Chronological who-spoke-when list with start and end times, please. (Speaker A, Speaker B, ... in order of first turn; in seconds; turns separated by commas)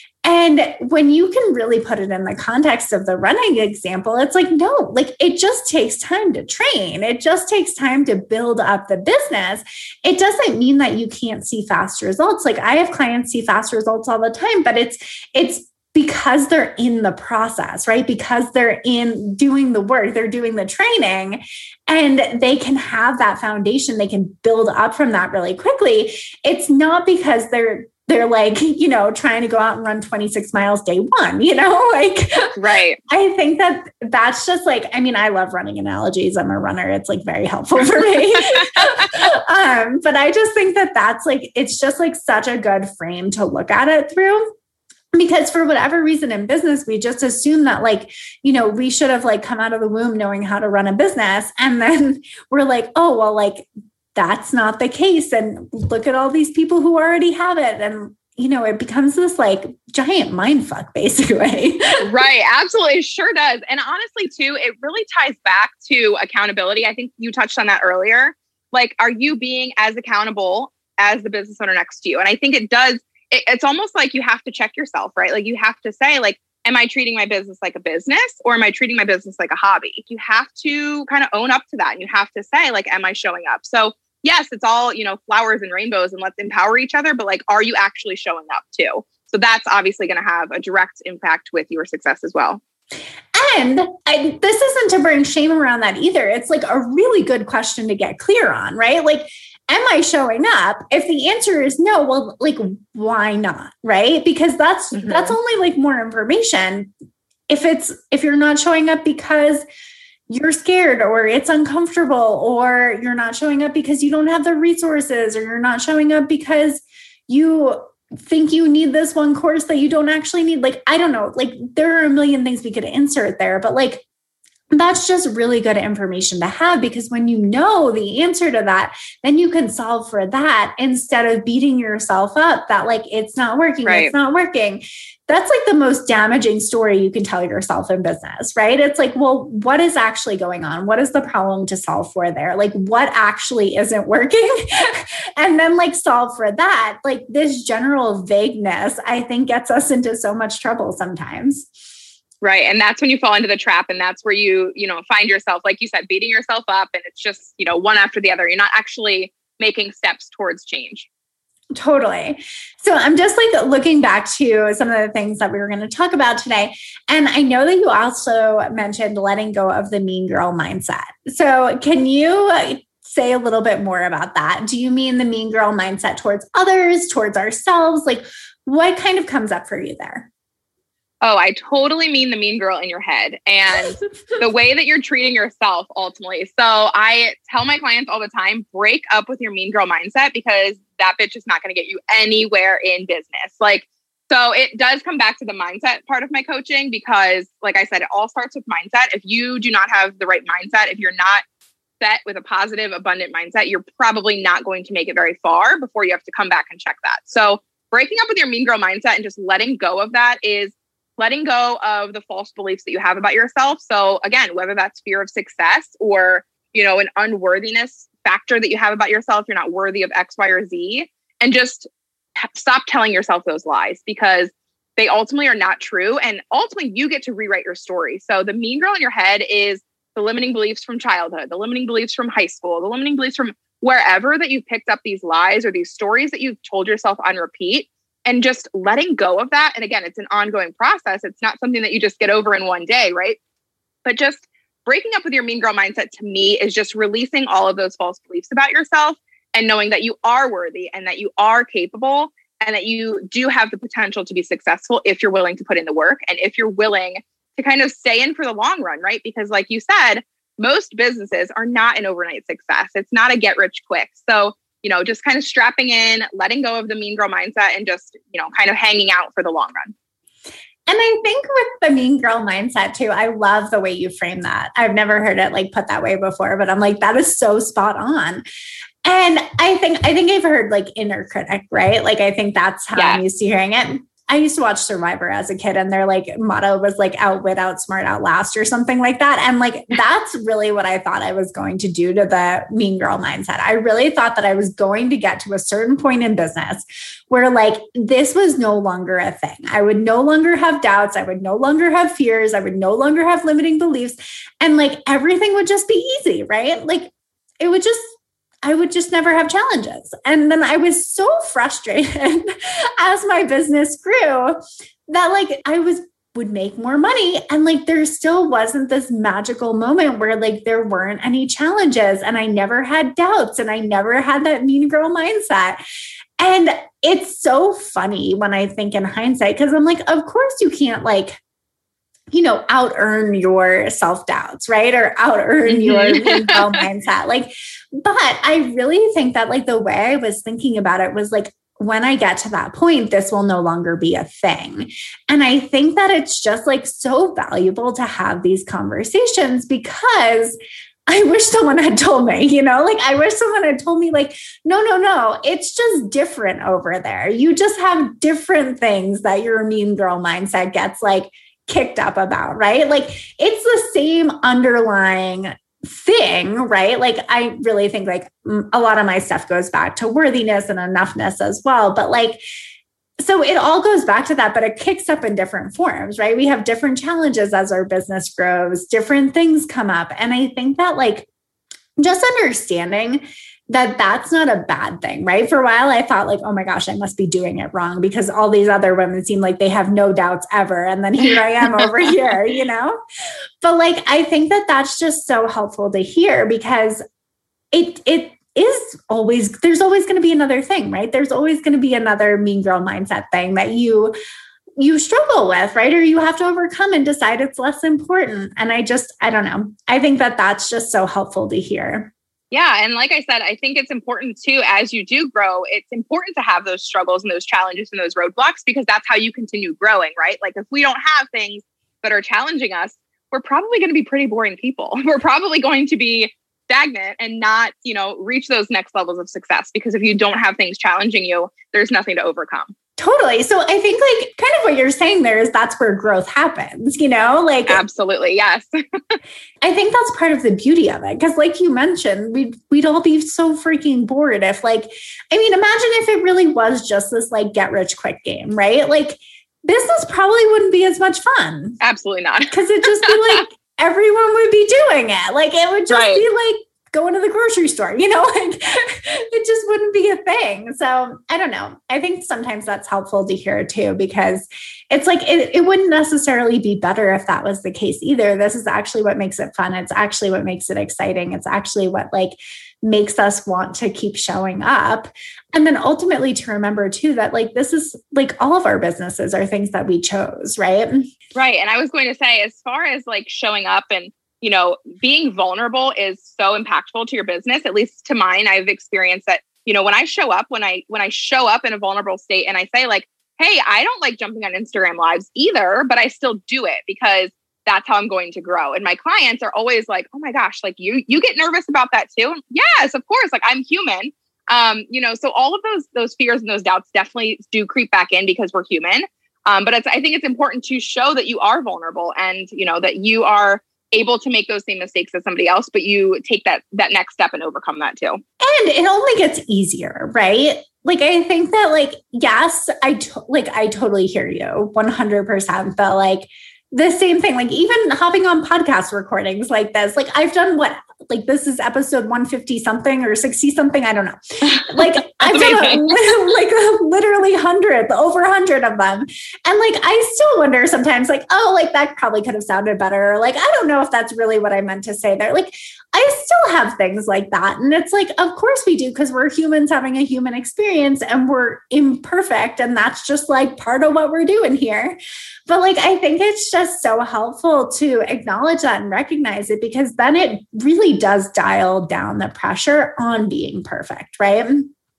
Speaker A: 0.2-32.5, Speaker B: 32.6-33.0, Speaker A: 33.1-44.5, Speaker B: 38.6-39.1, Speaker A: 45.1-62.1, Speaker B: 62.0-92.6, Speaker A: 93.3-106.9, Speaker B: 104.9-105.4, Speaker A: 107.5-109.6, Speaker A: 110.3-124.0, Speaker A: 124.7-151.7, Speaker B: 133.9-134.1, Speaker B: 152.4-161.1, Speaker A: 161.8-180.3, Speaker B: 181.2-201.4, Speaker B: 202.0-221.9, Speaker B: 222.4-243.4, Speaker B: 244.1-269.9, Speaker A: 270.9-278.4, Speaker A: 279.1-325.8, Speaker B: 283.0-283.2, Speaker A: 326.4-331.4, Speaker A: 332.3-350.6, Speaker B: 335.7-336.8, Speaker A: 351.1-372.4, Speaker A: 373.2-381.3, Speaker A: 382.0-393.0, Speaker A: 393.6-397.0, Speaker A: 397.7-404.1, Speaker A: 404.8-412.1, Speaker B: 412.5-432.7, Speaker A: 433.0-437.8, Speaker B: 437.7-439.2, Speaker A: 439.6-451.8, Speaker B: 451.8-453.2, Speaker A: 452.5-481.1, Speaker B: 455.9-456.2, Speaker B: 481.4-518.2, Speaker A: 518.4-555.0, Speaker B: 534.5-536.0, Speaker A: 555.5-564.7